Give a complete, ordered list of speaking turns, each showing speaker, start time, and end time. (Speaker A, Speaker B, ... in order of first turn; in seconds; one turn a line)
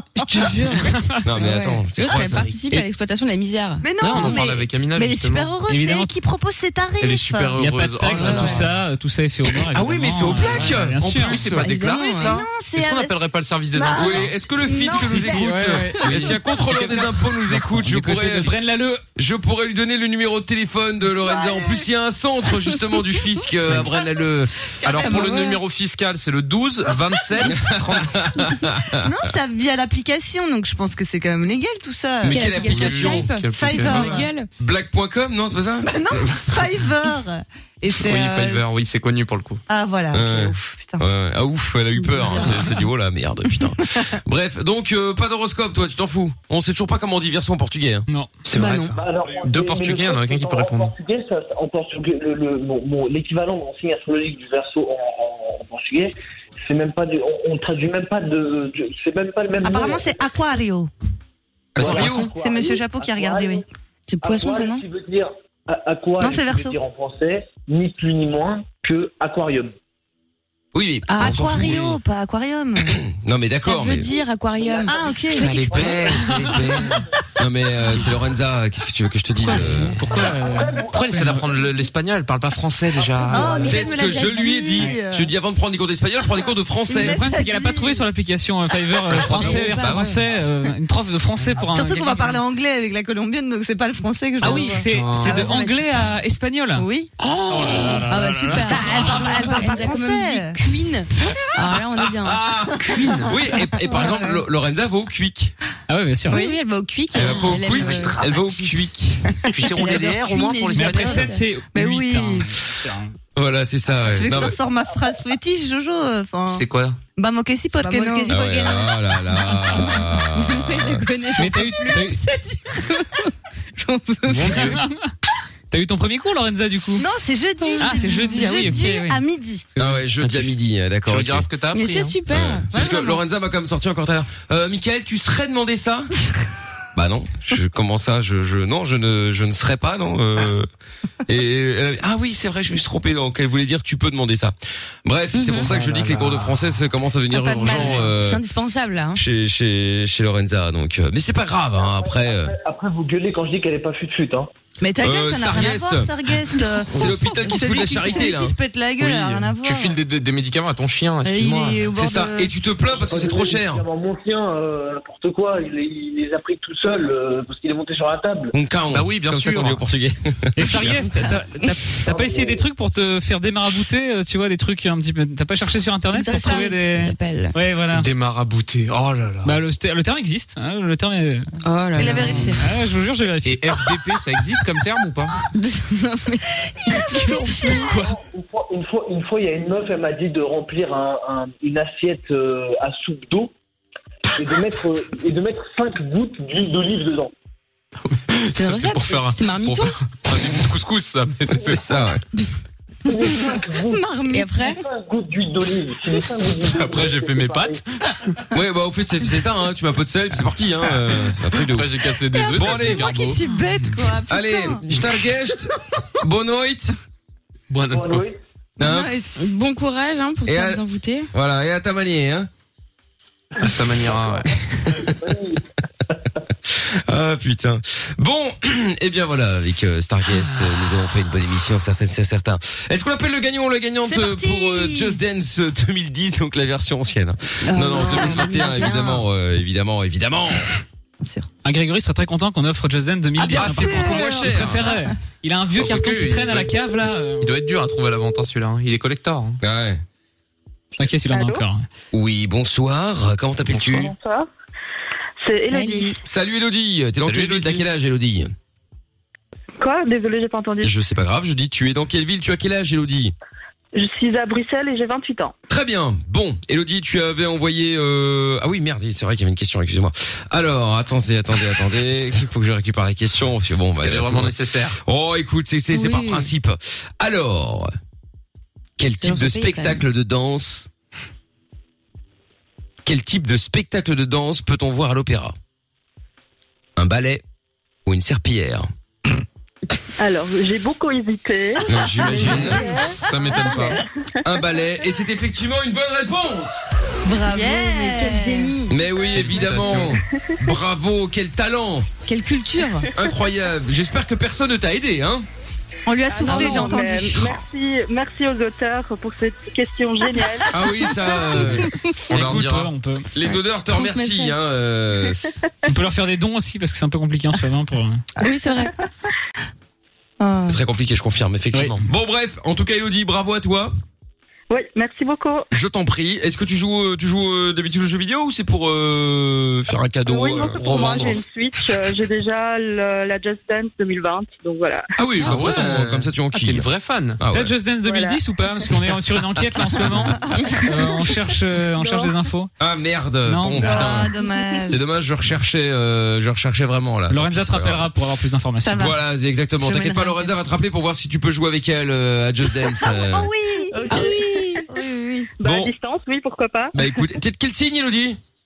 Speaker A: 0.2-3.9
Speaker B: 0.5-1.5
Speaker C: 1.2-2.8
Speaker D: 3.8-7.6
Speaker E: 4.0-5.5
Speaker B: 5.7-6.1
Speaker E: 7.0-8.7
Speaker B: 7.6-11.4
Speaker A: 8.1-8.6
Speaker C: 9.7-11.4
Speaker E: 10.3-14.3
Speaker A: 11.4-12.4
Speaker D: 12.0-13.2
Speaker D: 13.7-15.9
Speaker C: 13.9-18.6
Speaker E: 14.9-18.6
Speaker B: 15.2-16.3
Speaker B: 18.4-19.0
Speaker C: 19.1-24.5
Speaker D: 21.2-21.9
Speaker E: 24.8-28.5
Speaker D: 24.9-25.6
Speaker A: 25.0-25.6
Speaker C: 27.4-29.1
Speaker D: 28.9-32.5
Speaker C: 32.2-33.3
Speaker A: 32.3-34.5
Speaker E: 32.5-34.2
Speaker D: 33.5-34.3
Speaker C: 33.9-36.0
Speaker D: 35.8-38.6
Speaker E: 37.9-39.6
Speaker D: 39.7-41.0
Speaker C: 40.1-48.1
Speaker A: 42.0-42.6
Speaker E: 48.5-50.9
Speaker A: 48.5-48.9
Speaker F: 48.9-56.1
Speaker F: 56.6-60.4
Speaker D: 59.6-60.9
Speaker C: 61.7-62.3
Speaker E: 61.8-62.3
Speaker F: 61.8-63.6
Speaker D: 61.9-63.6
Speaker A: 64.1-64.8
Speaker F: 64.2-69.7
Speaker D: 66.2-66.8
Speaker C: 70.7-72.0
Speaker A: 71.1-71.6
Speaker D: 71.2-73.0
Speaker C: 72.8-74.1
Speaker A: 73.6-76.0
Speaker F: 74.1-76.9
Speaker D: 74.8-75.8
Speaker E: 75.4-77.1
Speaker B: 76.1-76.6
Speaker C: 77.4-80.0
Speaker E: 79.4-83.8
Speaker B: 79.5-81.4
Speaker F: 80.2-81.8
Speaker F: 83.0-83.7
Speaker D: 83.3-85.3
Speaker C: 83.6-87.2
Speaker D: 86.9-88.1
Speaker B: 87.0-92.4
Speaker E: 89.1-90.3
Speaker A: 89.2-90.0
Speaker D: 91.6-94.9
Speaker B: 94.4-96.9
Speaker E: 94.5-95.4
Speaker A: 94.5-95.9
Speaker D: 96.8-97.1
Speaker A: 97.2-102.4
Speaker B: 97.5-98.9
Speaker D: 98.6-100.6
Speaker C: 102.0-105.5
Speaker E: 102.8-103.5
Speaker A: 103.9-104.4
Speaker B: 105.9-106.4
Speaker D: 106.3-106.6
Speaker A: 106.3-108.2
Speaker C: 107.1-109.4
Speaker E: 107.2-108.2
Speaker E: 109.5-111.4
Speaker A: 109.5-111.4
Speaker B: 110.7-113.2
Speaker D: 111.7-112.5
Speaker C: 113.3-114.6
Speaker D: 114.0-118.3
Speaker E: 116.5-117.0
Speaker A: 117.8-119.0
Speaker C: 118.3-121.0
Speaker A: 119.5-122.1
Speaker B: 121.4-122.2
Speaker D: 121.9-122.8
Speaker A: 122.8-124.8
Speaker E: 124.3-124.8
Speaker B: 124.5-125.1
Speaker B: 125.7-127.0
Speaker D: 127.0-129.7
Speaker A: 127.6-128.7
Speaker B: 127.8-129.2
Speaker E: 129.8-130.5
Speaker C: 129.8-131.5
Speaker E: 131.0-132.2
Speaker A: 131.7-132.7
Speaker C: 132.3-136.1
Speaker D: 132.7-133.1
Speaker C: 136.9-140.7
Speaker C: 141.2-148.4
Speaker A: 145.3-145.7
Speaker E: 145.7-146.8
Speaker D: 147.3-148.1
Speaker E: 147.7-148.1
Speaker A: 148.0-149.2
Speaker C: 149.1-152.5
Speaker F: 151.8-154.5
Speaker D: 154.8-160.0
Speaker C: 155.0-158.6
Speaker E: 156.9-157.2
Speaker E: 159.0-161.9
Speaker D: 161.2-162.5
Speaker C: 161.9-163.8
Speaker F: 162.8-168.5
Speaker C: 168.5-171.3
Speaker E: 168.9-169.8
Speaker B: 170.6-178.1
Speaker F: 172.0-172.6
Speaker A: 176.1-177.5
Speaker D: 176.2-176.8
Speaker E: 177.9-179.6
Speaker B: 179.4-183.8
Speaker A: 181.6-182.6
Speaker D: 181.9-182.7
Speaker E: 183.4-185.4
Speaker A: 185.5-187.9
Speaker E: 187.8-188.1
Speaker F: 187.9-193.5
Speaker F: 194.3-197.3
Speaker E: 198.0-201.9
Speaker A: 198.5-199.9
Speaker C: 201.6-202.2
Speaker F: 203.1-204.1
Speaker D: 203.9-204.7
Speaker A: 204.3-204.8
Speaker F: 204.7-207.8
Speaker E: 206.6-207.8
Speaker C: 208.5-213.1
Speaker E: 211.1-213.4
Speaker D: 212.3-214.8
Speaker C: 214.3-216.9
Speaker E: 217.7-218.3
Speaker F: 217.9-218.3
Speaker C: 218.8-219.1
Speaker D: 218.8-219.3
Speaker A: 219.3-221.3
Speaker C: 220.4-220.8
Speaker C: 221.3-222.5
Speaker E: 223.6-224.8
Speaker F: 224.1-224.3
Speaker C: 224.9-225.2
Speaker F: 224.9-225.7
Speaker C: 226.7-240.7
Speaker D: 234.1-235.2
Speaker A: 237.7-239.2
Speaker D: 238.3-238.7
Speaker D: 241.2-241.5
Speaker B: 241.6-247.5
Speaker D: 243.4-245.1
Speaker C: 243.5-244.9
Speaker E: 245.8-246.7
Speaker E: 247.4-249.6
Speaker C: 249.6-250.0
Speaker B: 251.0-251.8
Speaker G: 251.3-251.7
Speaker C: 252.1-254.1
Speaker E: 253.7-254.0
Speaker G: 253.9-254.5
Speaker G: 255.4-256.2
Speaker A: 255.6-256.2
Speaker C: 256.2-258.5
Speaker E: 257.2-257.9
Speaker G: 259.8-261.0
Speaker C: 260.8-263.3
Speaker G: 263.9-265.5
Speaker C: 265.7-277.9
Speaker E: 273.8-275.0
Speaker A: 275.9-276.5
Speaker C: 279.0-280.9
Speaker A: 279.2-280.0
Speaker C: 283.0-285.6
Speaker C: 286.9-287.4
Speaker C: 288.0-288.9
Speaker G: 290.2-294.5
Speaker C: 291.9-292.8
Speaker E: 292.2-294.0
Speaker C: 294.4-296.8
Speaker A: 297.2-299.1
Speaker D: 297.4-298.8
Speaker C: 298.9-302.1
Speaker E: 299.3-300.2
Speaker A: 302.2-303.1
Speaker C: 303.1-305.5
Speaker D: 306.1-307.5
Speaker G: 306.3-310.8
Speaker A: 306.3-306.9
Speaker C: 310.7-315.5
Speaker E: 311.5-312.9
Speaker B: 312.4-313.3
Speaker A: 313.8-314.5
Speaker B: 315.9-318.2
Speaker D: 318.4-319.1
Speaker A: 318.4-318.9
Speaker D: 320.4-320.8
Speaker C: 320.6-323.9
Speaker B: 321.7-322.0
Speaker G: 324.7-325.7
Speaker C: 325.7-331.1
Speaker G: 330.2-335.1
Speaker E: 330.7-331.4
Speaker C: 335.2-336.9
Speaker E: 335.4-337.4
Speaker C: 337.4-337.8
Speaker B: 337.5-342.7
Speaker G: 338.0-338.4
Speaker D: 340.2-341.1
Speaker G: 341.9-342.3
Speaker C: 342.8-344.3
Speaker B: 343.4-344.1
Speaker D: 343.8-345.0
Speaker C: 344.9-348.1
Speaker B: 347.3-349.1
Speaker D: 348.8-349.2
Speaker C: 348.9-353.5
Speaker D: 349.8-350.5
Speaker D: 353.0-355.5
Speaker G: 353.9-354.9
Speaker G: 355.6-356.9
Speaker C: 355.6-355.9
Speaker C: 356.9-358.4